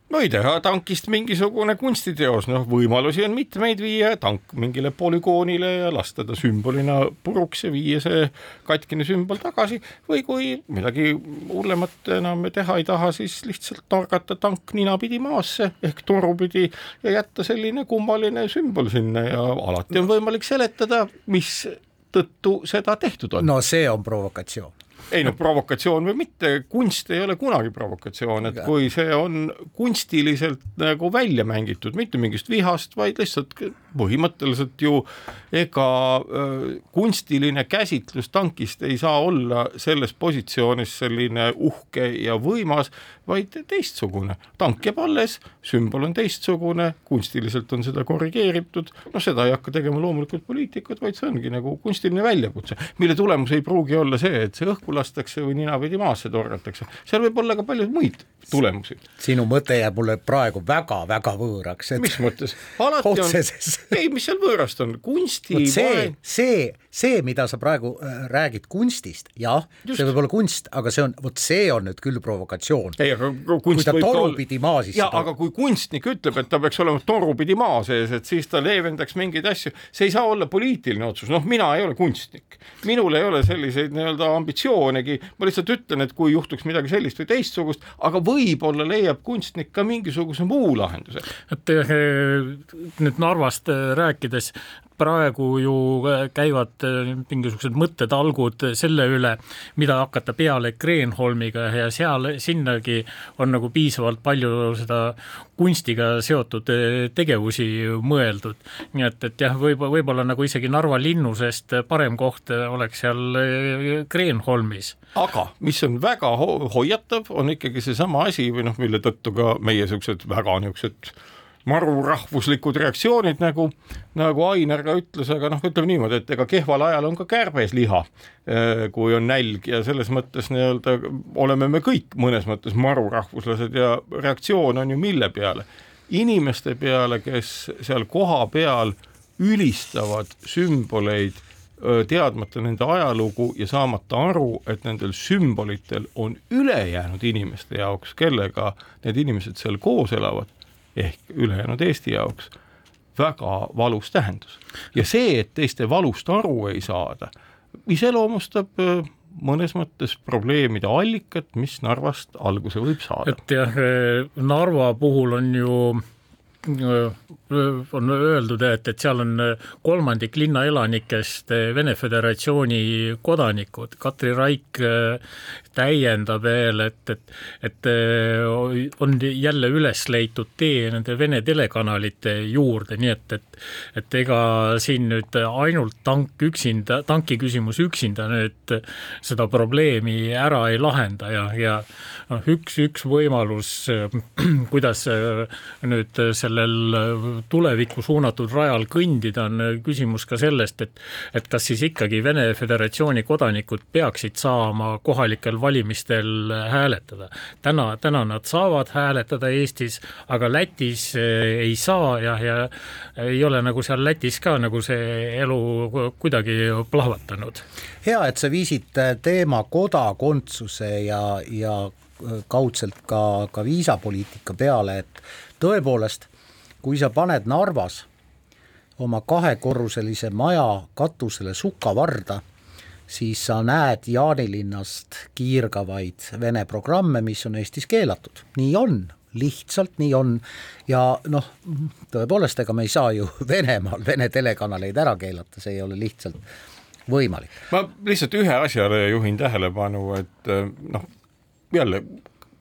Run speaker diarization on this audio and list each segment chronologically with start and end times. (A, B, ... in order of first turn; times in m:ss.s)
0:00.1-0:23.5 A
0:23.4-0:24.7 B
0:25.1-0:59.0 A
0:59.2-1:02.2 B
1:02.0-1:06.1 A
1:03.0-1:03.9 B
1:05.5-1:13.0 B
1:13.0-1:14.4 A
1:13.7-1:15.3 B
1:14.9-1:31.2 A
1:31.5-1:55.0 C
1:55.1-2:32.5 A
2:33.2-2:37.3 A
2:37.9-2:43.4 A
2:43.2-2:46.0 C
2:46.6-2:55.2 C
2:55.7-3:37.6 C
3:38.0-3:46.3 B
3:46.8-3:48.1 B
3:49.0-3:52.4 B
3:53.1-4:06.4 B
4:07.1-4:07.5 B
4:07.7-4:11.1 A
4:11.7-4:12.2 A